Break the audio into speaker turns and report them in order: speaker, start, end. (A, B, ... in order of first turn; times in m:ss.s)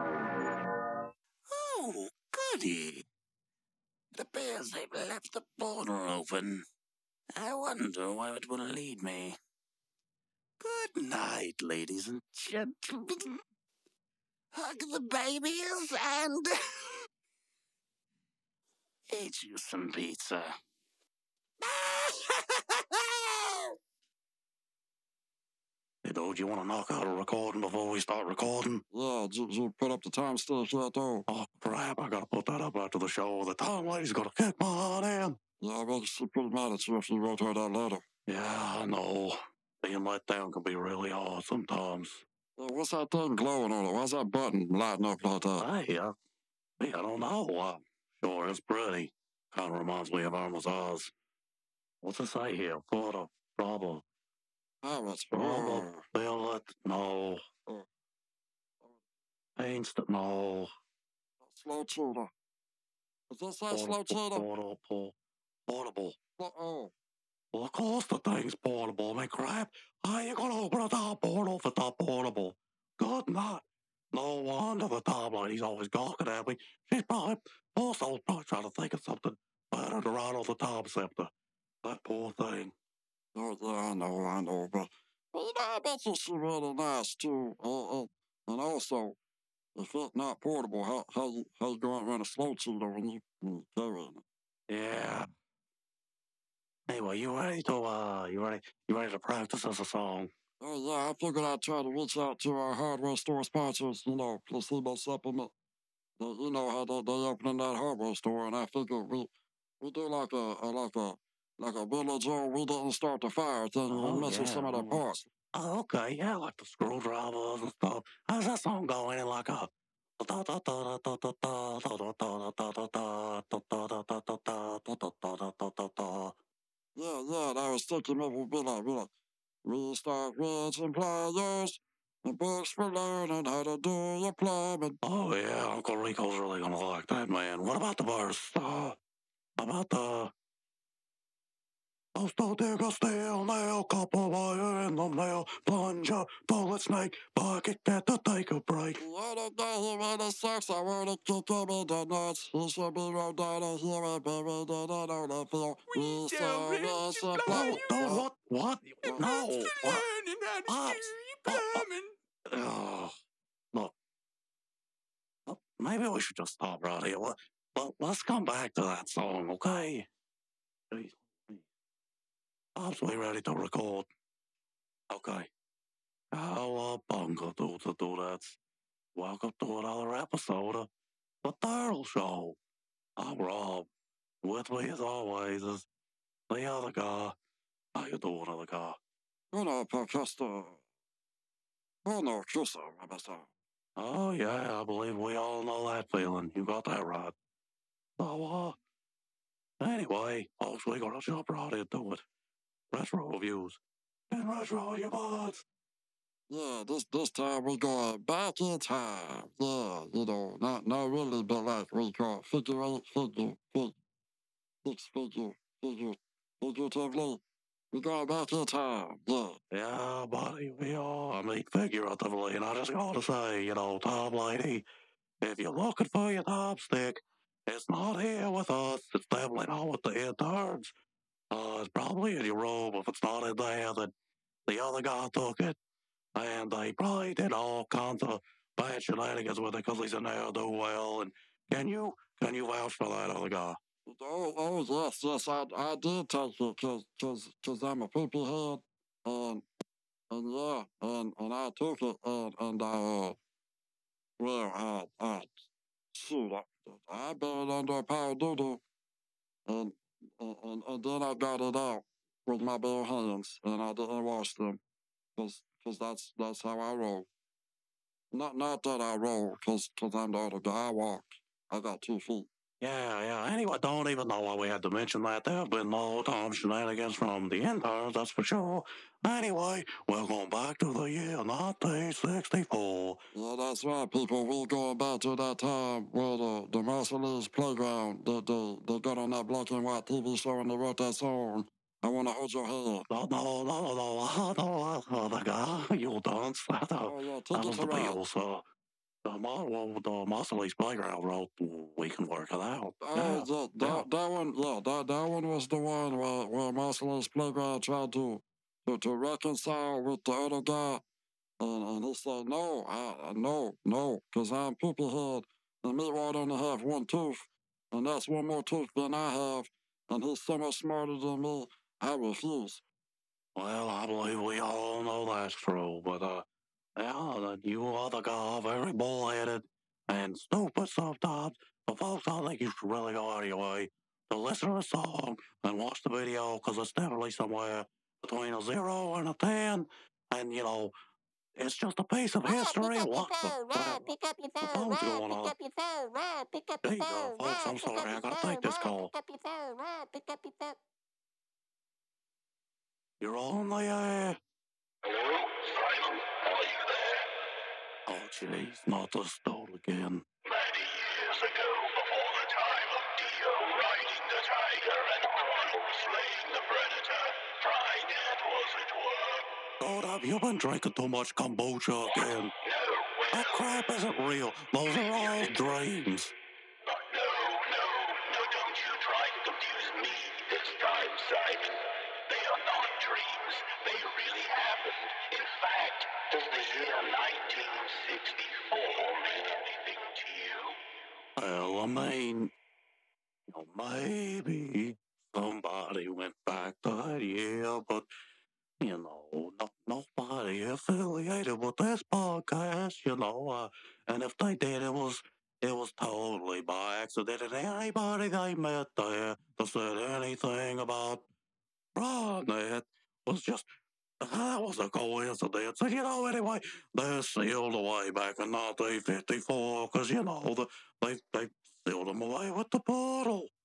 0:01.5-0:03.0 A
0:04.1-0:06.6 A
0:07.3-0:09.4 A
0:10.6-0:13.4 A
0:14.5-0:17.0 A
0:19.1-0:20.5 A
0:21.6-0:23.7 A
0:26.0-0:28.8 B
0:28.9-0:31.2 C
0:31.3-0:35.4 B
0:35.6-0:38.0 C
0:38.3-0:42.2 B
0:42.6-0:45.6 C
0:45.6-0:46.1 B
0:46.8-0:51.1 B
0:52.0-0:54.0 B
0:54.8-0:56.0 C
0:55.3-0:57.4 B
0:59.6-1:00.7 B
1:01.4-1:02.3 C
1:03.3-1:04.4 C
1:03.7-1:05.1 B
1:05.7-1:06.2 B
1:06.4-1:06.9 C
1:07.5-1:21.3 B
1:21.8-1:22.7 B
1:23.3-1:29.2 C
1:29.8-1:34.2 C
1:34.7-1:35.3 B
1:36.9-1:40.3 B
1:40.6-1:45.5 C
1:46.2-1:49.3 C
1:49.8-1:55.3 C
1:53.9-1:55.0 B
1:55.5-2:06.4 B
2:06.9-2:09.1 C
2:09.6-2:15.0 C
2:15.0-2:19.0 B
2:19.6-2:20.3 B
2:22.1-2:29.0 B
2:29.0-2:38.3 C
2:35.9-2:37.9 D
2:37.4-2:40.0 B
2:39.0-2:42.1 D
2:40.7-2:41.8 B
2:42.5-2:43.1 B
2:45.5-2:50.1 B
2:50.9-2:51.6 B
2:52.8-2:54.1 B
2:55.1-2:55.5 B
2:56.3-2:58.6 B
2:59.1-3:00.9 B
3:01.4-3:02.6 B
3:03.2-3:03.9 B
3:04.4-3:05.9 B
3:06.5-3:07.3 B
3:07.9-3:09.0 B
3:09.5-3:10.8 C
3:12.0-3:13.5 C
3:14.0-3:17.3 B
3:18.2-3:18.8 B
3:19.8-3:22.2 B
3:22.9-3:25.6 B
3:26.5-3:34.0 C
3:34.8-3:37.4 C
3:37.9-3:39.6 C
3:39.7-3:44.8 B
3:45.4-3:50.9 B
3:51.5-3:54.1 B
3:54.7-3:55.8 B
3:56.3-4:03.8 B
4:04.0-4:09.6 C
4:10.3-4:13.4 C
4:14.4-4:15.6 C
4:16.1-4:18.8 C
4:19.6-4:24.8 C
4:25.4-4:27.3 C
4:28.3-4:32.5 C
4:32.8-4:43.2 B
4:43.3-4:53.0 C
4:53.1-4:58.6 B
4:57.0-4:58.2 C
4:59.2-5:04.1 B
5:03.0-5:11.0 C
5:11.6-5:22.8 C
5:23.5-5:26.4 B
5:27.0-5:40.9 B
5:41.6-5:44.1 B
5:42.4-5:50.8 C
5:44.6-5:45.5 B
5:46.8-5:49.1 B
5:53.2-5:54.4 B
5:55.0-5:57.3 E
5:58.0-6:00.2 B
6:00.4-6:09.5 E
6:09.8-6:12.5 B
6:12.1-6:13.7 E
6:13.3-6:16.3 B
6:15.1-6:15.6 E
6:16.8-6:30.8 E
6:31.4-6:32.5 B
6:33.5-6:38.1 B
6:38.8-6:51.2 B
6:51.9-6:53.6 B
6:54.2-7:03.5 B